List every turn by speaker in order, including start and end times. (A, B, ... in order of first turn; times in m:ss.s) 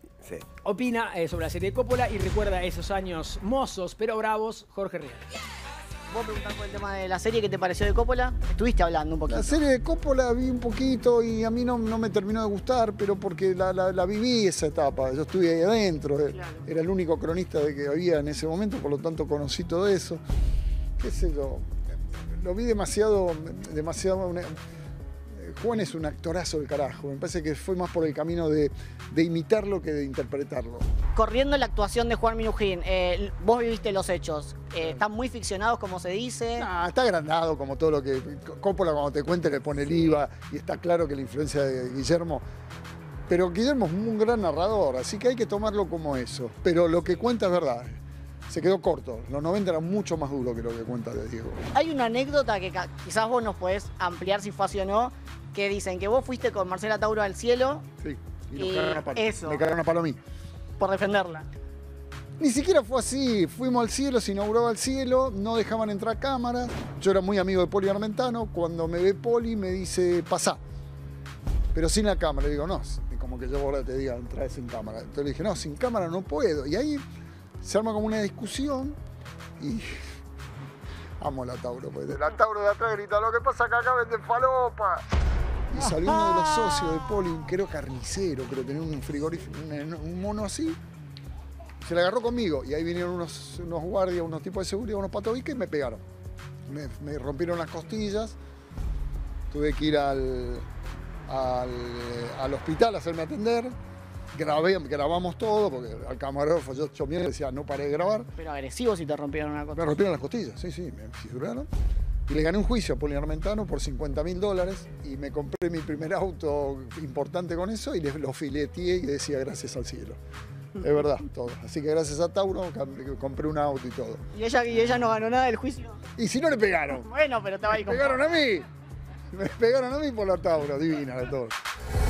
0:00.6-0:05.2 A
0:06.1-0:09.6 B
0:09.3-0:20.2 C
0:21.0-0:24.6 C
0:25.3-0:30.9 C
0:31.1-0:36.7 B
0:36.6-0:42.4 C
0:43.3-0:51.6 C
0:51.7-0:57.8 B
0:58.0-1:00.2 C
0:58.5-0:59.6 B
1:00.8-1:01.5 B
1:02.4-1:10.6 C
1:11.7-1:17.0 C
1:17.6-1:19.0 C
1:19.6-1:20.0 C
1:21.2-1:25.0 C
1:25.7-1:30.8 C
1:31.8-1:36.0 C
1:36.7-1:38.4 C
1:39.5-1:40.6 C
1:41.3-1:43.7 C
1:44.3-1:48.3 C
1:48.4-1:50.0 B
1:49.7-1:51.7 C
1:52.3-2:00.2 C
2:00.8-2:04.2 C
2:04.3-2:06.0 B
2:06.2-2:07.1 C
2:07.0-2:08.2 B
2:07.7-2:08.7 C
2:09.3-2:11.5 C